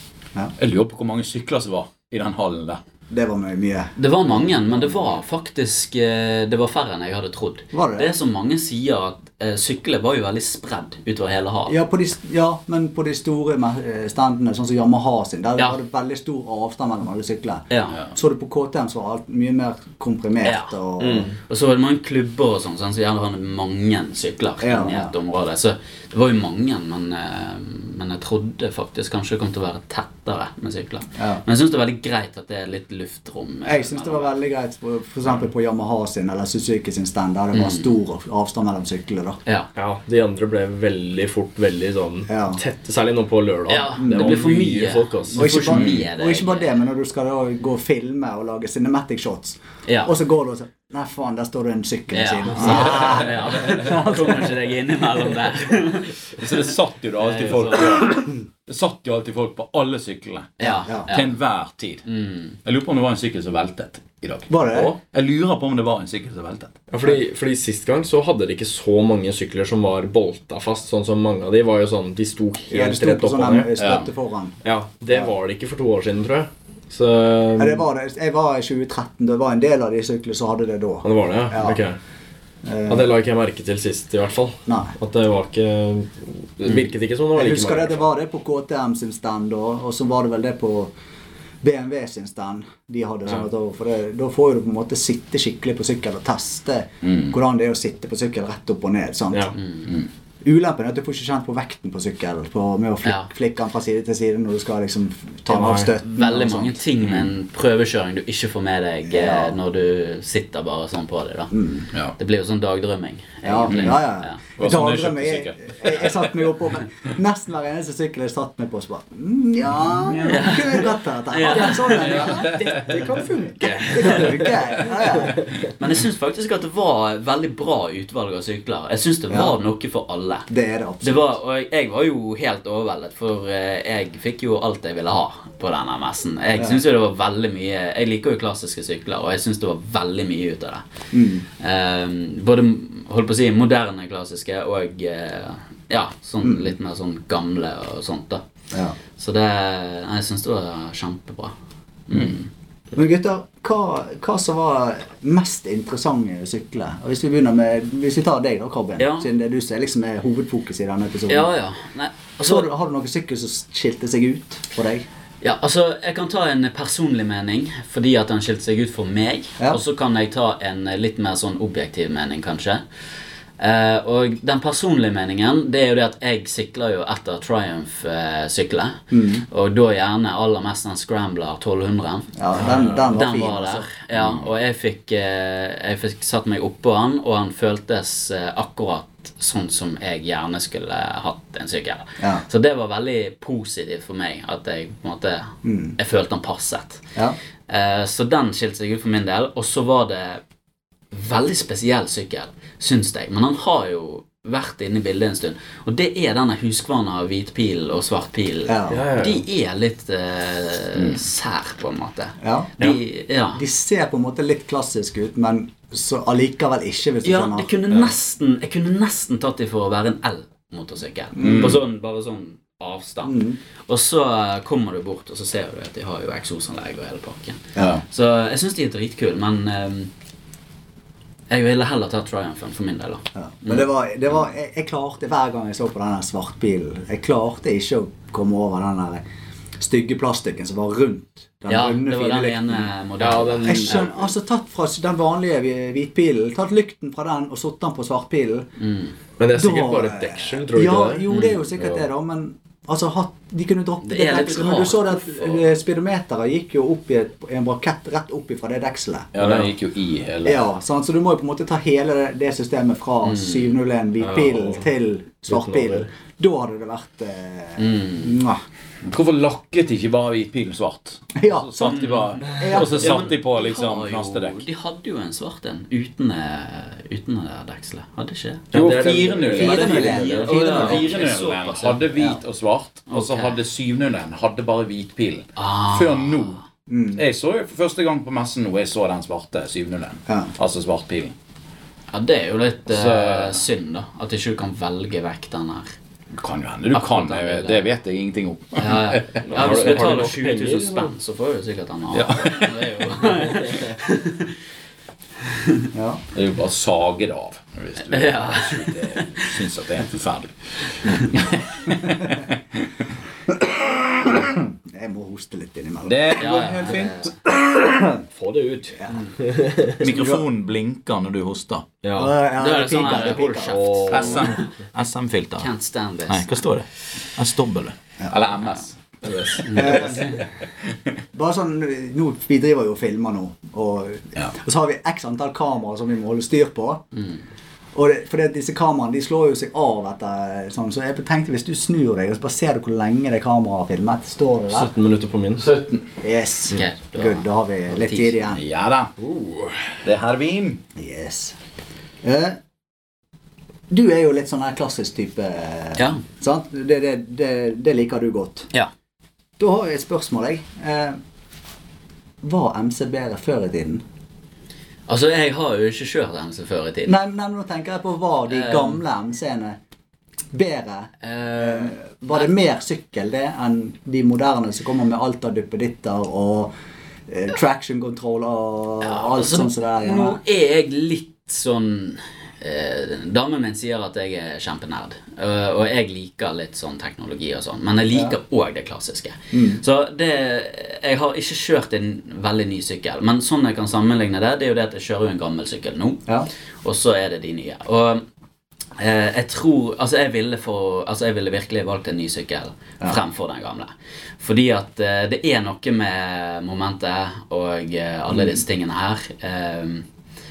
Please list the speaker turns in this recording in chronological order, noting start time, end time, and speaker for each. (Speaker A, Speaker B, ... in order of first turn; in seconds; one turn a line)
Speaker A: 0.6-2.8
Speaker B: 3.1-5.2
Speaker C: 4.0-11.8
Speaker B: 7.7-8.1
Speaker B: 11.7-21.3
Speaker C: 17.7-18.0
Speaker C: 20.4-20.7
Speaker D: 21.0-21.3
Speaker C: 21.3-34.3
Speaker B: 24.6-25.1
Speaker B: 31.2-31.4
Speaker B: 33.6-39.4
Speaker C: 37.5-37.9
Speaker D: 39.8-45.5
Speaker B: 42.3-42.6
Speaker C: 43.7-46.7
Speaker B: 44.0-44.4
Speaker B: 45.3-54.5
Speaker A: 45.7-46.0
Speaker C: 49.9-50.1
Speaker C: 52.1-56.4
Speaker A: 52.6-53.2
Speaker A: 56.4-62.0
Speaker C: 57.2-58.1
Speaker C: 60.6-61.3
Speaker B: 60.6-61.1
Speaker C: 62.0-62.5
Speaker A: 62.6-66.8
Speaker B: 64.5-65.0
Speaker D: 66.9-73.7
Speaker B: 72.7-74.5
Speaker A: 73.8-74.1
Speaker D: 74.6-77.8
Speaker B: 77.6-81.8
Speaker D: 81.0-82.0
Speaker B: 82.6-83.1
Speaker D: 82.9-88.0
Speaker B: 84.7-84.9
Speaker B: 87.3-90.9
Speaker B: 91.6-99.6
Speaker A: 97.0-97.3
Speaker C: 99.5-99.9
Speaker B: 100.4-106.8
Speaker C: 103.0-103.3
Speaker D: 105.5-105.9
Speaker C: 106.0-111.5
Speaker A: 107.0-107.3
Speaker B: 109.1-109.5
Speaker B: 111.5-111.9
Speaker C: 112.2-114.4
Speaker B: 113.4-122.6
Speaker A: 113.7-114.0
Speaker A: 114.6-116.3
Speaker C: 120.1-122.4
Speaker D: 121.5-125.5
Speaker B: 123.8-125.4
Speaker C: 125.8-130.5
Speaker B: 129.3-129.6
Speaker B: 130.5-131.3
Speaker C: 131.0-140.9
Speaker B: 141.1-141.4
Speaker C: 141.6-148.4
Speaker B: 146.4-146.7
Speaker C: 149.2-151.5
Speaker C: 152.1-152.5
Speaker B: 152.9-161.5
Speaker C: 159.0-159.3
Speaker C: 161.3-162.7
Speaker B: 162.4-165.0
Speaker C: 165.4-172.8
Speaker C: 173.6-197.1
Speaker B: 179.1-179.4
Speaker B: 182.3-183.9
Speaker A: 184.2-184.4
Speaker B: 195.6-195.9
Speaker C: 197.7-200.4
Speaker C: 201.1-213.6
Speaker B: 208.7-209.0
Speaker D: 208.9-209.4
Speaker B: 212.4-212.7
Speaker B: 213.5-217.7
Speaker C: 217.2-230.1
Speaker B: 221.3-221.8
Speaker A: 221.4-221.8
Speaker B: 223.2-223.6
Speaker B: 227.8-228.0
Speaker A: 227.8-228.0
Speaker C: 231.5-233.8
Speaker B: 233.3-239.2
Speaker B: 239.8-242.9
Speaker C: 241.7-244.1
Speaker D: 243.2-244.1
Speaker B: 243.6-248.7
Speaker C: 248.8-249.1
Speaker D: 249.4-251.3
Speaker B: 249.5-259.3
Speaker C: 251.3-251.6
Speaker C: 254.0-255.6
Speaker A: 259.3-260.6
Speaker D: 259.4-259.7
Speaker B: 260.4-268.6
Speaker C: 263.2-263.7
Speaker D: 264.2-264.9
Speaker D: 265.5-266.1
Speaker C: 267.8-268.3
Speaker A: 269.0-274.6
Speaker B: 271.3-273.2
Speaker C: 271.9-278.7
Speaker D: 278.7-280.5
Speaker A: 278.7-286.6
Speaker B: 279.5-281.1
Speaker C: 279.6-282.1
Speaker B: 282.1-282.4
Speaker C: 283.1-283.5
Speaker C: 285.6-286.6
Speaker B: 286.9-287.2
Speaker A: 287.1-291.3
Speaker B: 290.3-290.5
Speaker C: 292.1-295.9
Speaker A: 292.9-293.6
Speaker A: 296.3-299.8
Speaker C: 296.9-297.8
Speaker C: 298.8-304.5
Speaker D: 299.4-301.1
Speaker A: 302.1-302.8
Speaker C: 305.4-305.8
Speaker B: 305.9-306.2
Speaker A: 306.3-312.9
Speaker C: 308.1-309.5
Speaker C: 311.0-311.3
Speaker B: 313.5-317.0
Speaker A: 316.0-317.3
Speaker C: 316.4-317.3
Speaker B: 317.5-318.2
Speaker D: 318.3-320.0
Speaker A: 320.0-321.9
Speaker B: 320.0-320.4
Speaker D: 322.0-322.3
Speaker B: 322.1-323.8
Speaker C: 322.6-324.7
Speaker D: 323.5-324.6
Speaker A: 324.1-325.7
Speaker C: 325.6-326.7
Speaker A: 326.3-330.2
Speaker D: 329.2-330.1
Speaker C: 329.6-330.4
Speaker B: 329.7-330.4
Speaker B: 331.3-337.0
Speaker B: 337.9-344.9
Speaker D: 344.7-345.7
Speaker A: 345.6-346.1
Speaker B: 346.2-348.6
Speaker C: 346.7-348.3
Speaker A: 348.4-349.1
Speaker D: 349.2-349.9
Speaker A: 350.0-350.8
Speaker B: 350.9-351.6
Speaker B: 352.2-352.6
Speaker B: 353.9-358.7
Speaker C: 355.9-356.2
Speaker B: 359.6-361.2
Speaker B: 362.4-364.0
Speaker C: 365.1-367.2
Speaker B: 367.1-369.8
Speaker C: 368.5-369.0
Speaker B: 370.5-376.7
Speaker C: 371.2-372.5
Speaker B: 377.3-380.4
Speaker C: 379.0-396.3
Speaker B: 388.1-388.4
Speaker B: 389.5-389.8
Speaker C: 396.8-398.2
Speaker C: 399.0-410.1
Speaker B: 408.3-408.6